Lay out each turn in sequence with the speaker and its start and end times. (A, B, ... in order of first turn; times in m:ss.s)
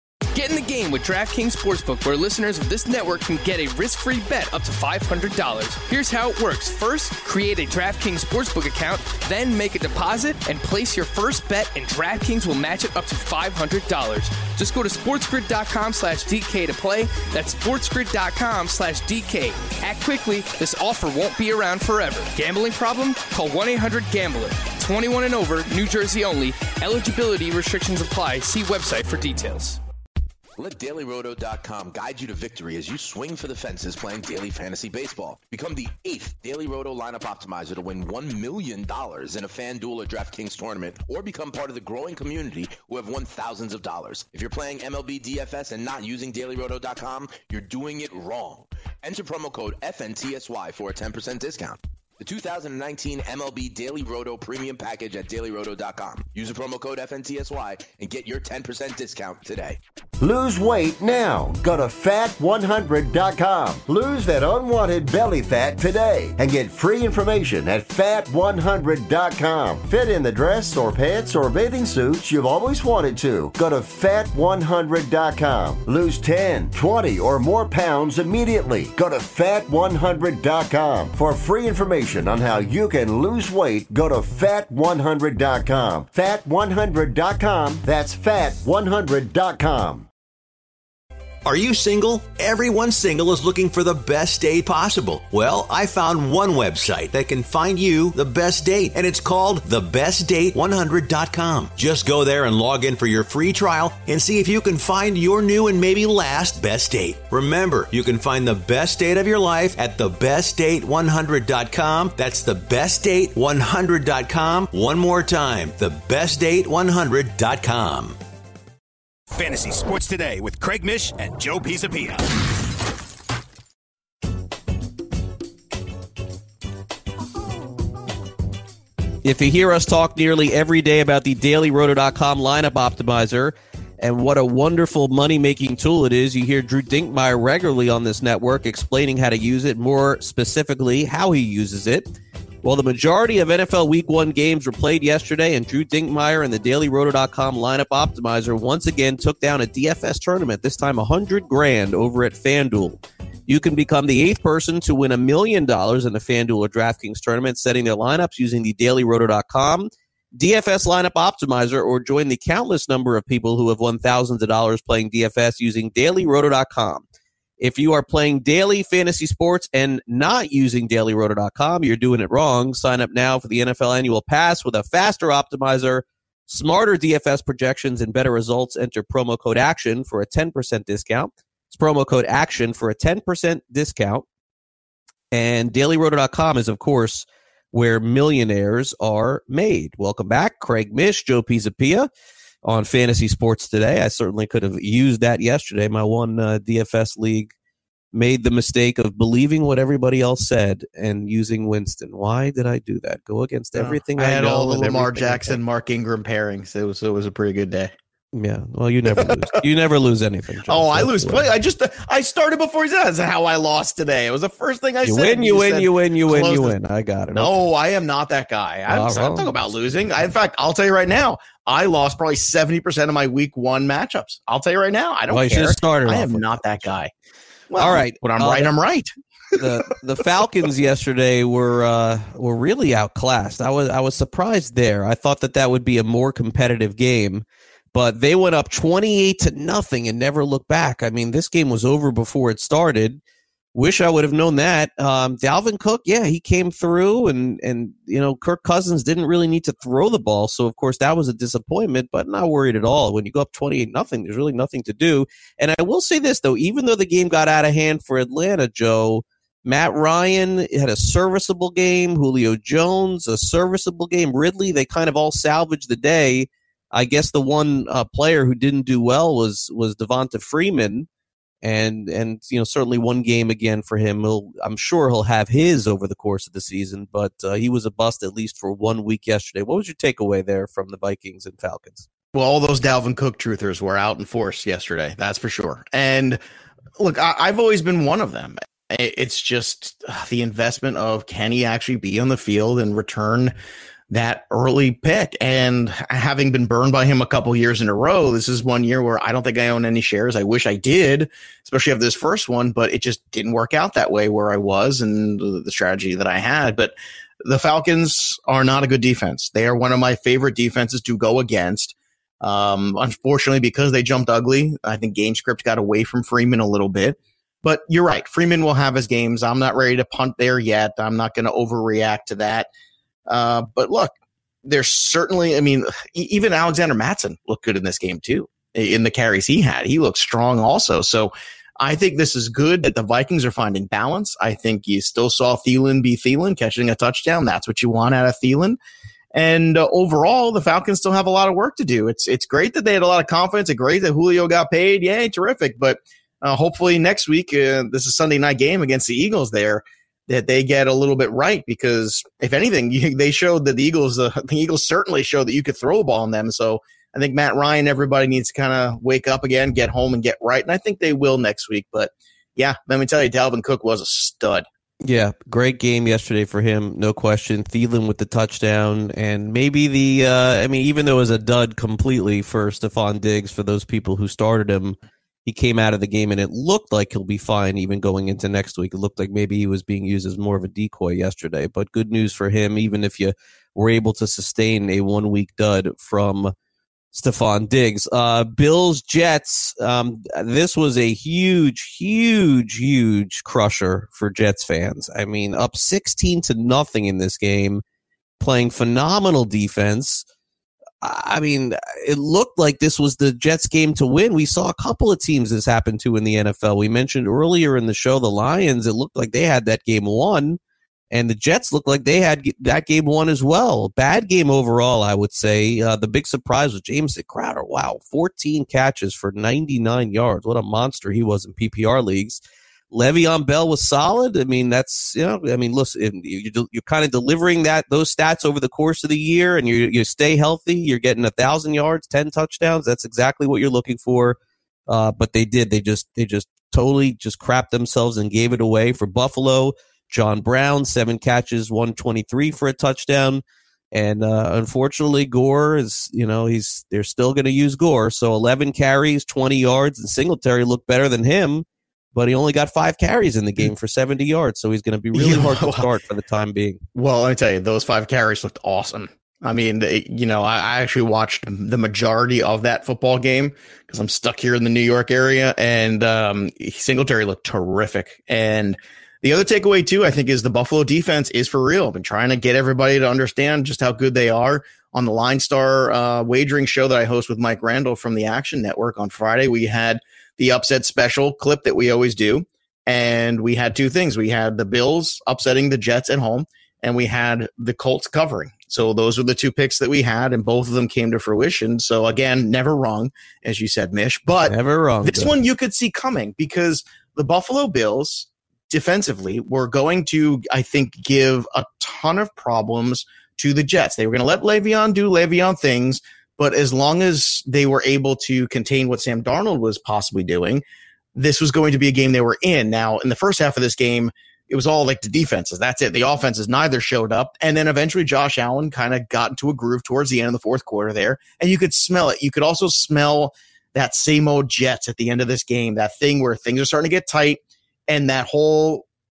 0:00.3-0:29.8 A
0:30.6-0:59.8 B
1:00.2-1:30.1 C
1:31.4-1:58.2 D
1:59.3-2:02.2 E
2:09.2-2:22.1 F
2:22.6-2:47.0 F
2:47.6-3:04.2 F
3:05.3-3:12.1 F
3:12.6-3:17.5 F
3:18.1-3:25.6 F
3:23.8-3:27.9 G
3:28.3-3:31.4 F
3:29.1-3:29.4 G
3:30.7-3:36.8 G
3:35.0-3:37.5 F
3:37.3-3:47.1 G
3:38.9-3:39.5 F
3:45.3-3:46.9 F
3:47.7-3:49.1 G
3:47.8-3:48.7 F
3:49.6-4:03.2 F
4:03.7-4:31.1 F
4:31.6-4:42.0 F
4:42.3-4:46.4 G
4:47.0-4:53.5 G
4:54.1-5:06.9 G
5:07.4-5:22.7 G
5:23.3-5:24.1 G
5:24.6-5:38.8 G
5:39.3-6:04.6 G
6:05.0-6:26.5 F
6:27.1-6:37.8 F
6:38.4-6:40.2 F
6:41.0-6:50.6 F
6:51.1-7:02.4 F
7:02.9-7:23.4 F
7:23.9-7:36.8 F
7:35.1-7:35.9 G
7:36.9-8:30.6 G
8:14.4-8:15.3 F
8:31.1-8:48.8 G